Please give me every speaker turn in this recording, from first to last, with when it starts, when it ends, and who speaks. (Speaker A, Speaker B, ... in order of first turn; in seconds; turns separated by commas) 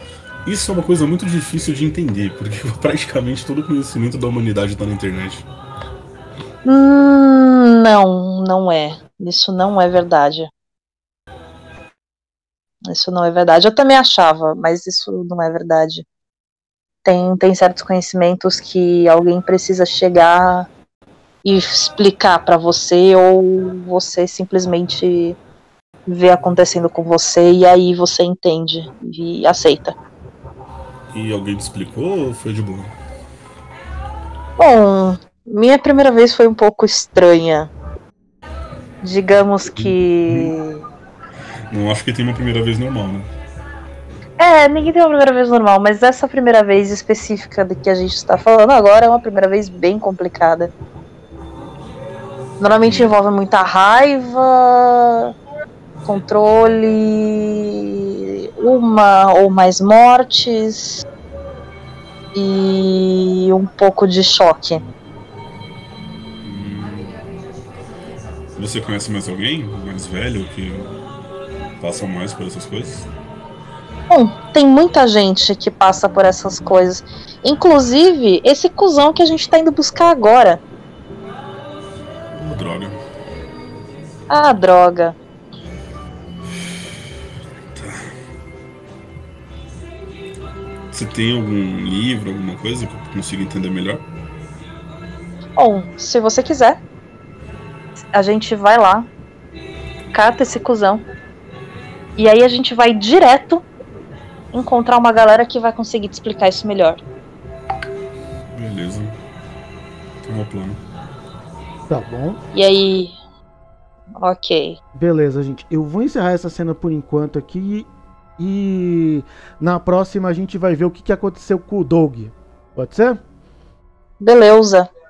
Speaker A: 0.5-5.5, Speaker B: 6.7-10.5, Speaker B: 12.9-16.1, Speaker B: 17.1-20.7, Speaker B: 21.4-25.4, Speaker B: 26.1-29.9, Speaker A: 31.1-32.9, Speaker B: 34.6-37.7, Speaker B: 39.0-40.9, Speaker A: 39.7-40.5, Speaker A: 41.7-43.3, Speaker B: 44.4-50.7, Speaker B: 52.6-55.3, Speaker A: 52.8-53.1, Speaker B: 56.1-61.0, Speaker B: 62.4-64.8, Speaker A: 66.4-67.2, Speaker A: 68.5-70.9, Speaker A: 71.8-73.1, Speaker B: 74.1-80.6, Speaker A: 82.3-83.0, Speaker B: 84.3-85.2, Speaker A: 87.7-88.1, Speaker A: 90.9-94.0, Speaker B: 95.6-96.8, Speaker B: 98.1-99.1, Speaker B: 100.1-101.0, Speaker B: 102.2-103.6, Speaker B: 104.5-107.0, Speaker A: 108.5-109.2, Speaker A: 110.2-110.8, Speaker C: 111.9-112.4, Speaker B: 112.5-113.2, Speaker B: 114.2-114.8, Speaker C: 115.0-123.2, Speaker B: 124.2-124.9